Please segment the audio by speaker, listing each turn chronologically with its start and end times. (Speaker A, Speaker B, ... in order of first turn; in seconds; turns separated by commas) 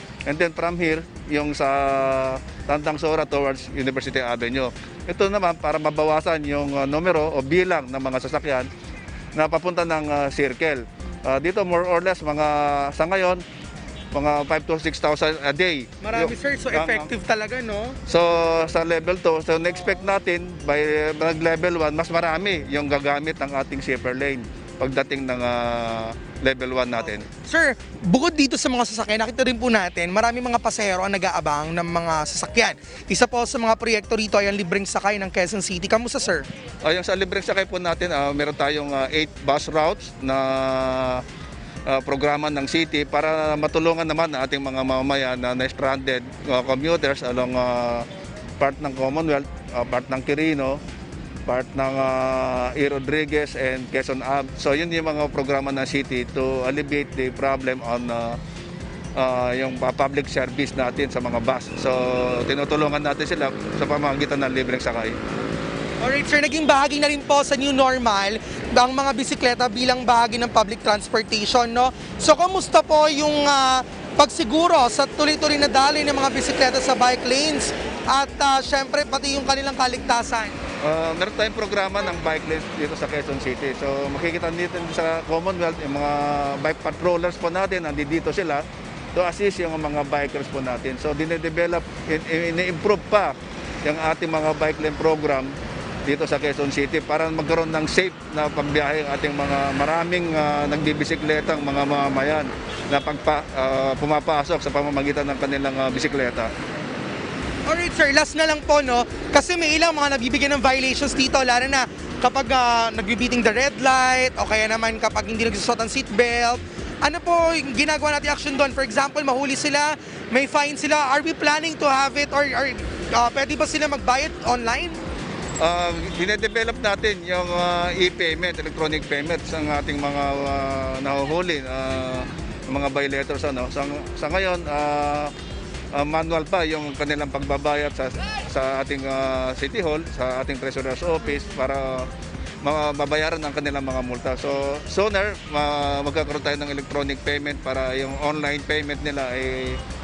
Speaker A: 0.3-8.7, Speaker A: 9.3-13.4, Speaker A: 14.1-17.1, Speaker B: 16.0-18.0, Speaker A: 18.1-27.3, Speaker B: 27.2-36.5, Speaker A: 36.8-41.2, Speaker A: 41.9-48.1, Speaker A: 48.6-50.8, Speaker A: 51.5-58.4, Speaker A: 59.2-65.2, Speaker B: 66.0-80.6, Speaker A: 80.8-88.6, Speaker A: 89.2-95.5, Speaker A: 96.1-106.5, Speaker B: 107.7-125.0, Speaker A: 125.6-135.3, Speaker A: 135.9-142.1, Speaker A: 142.6-149.8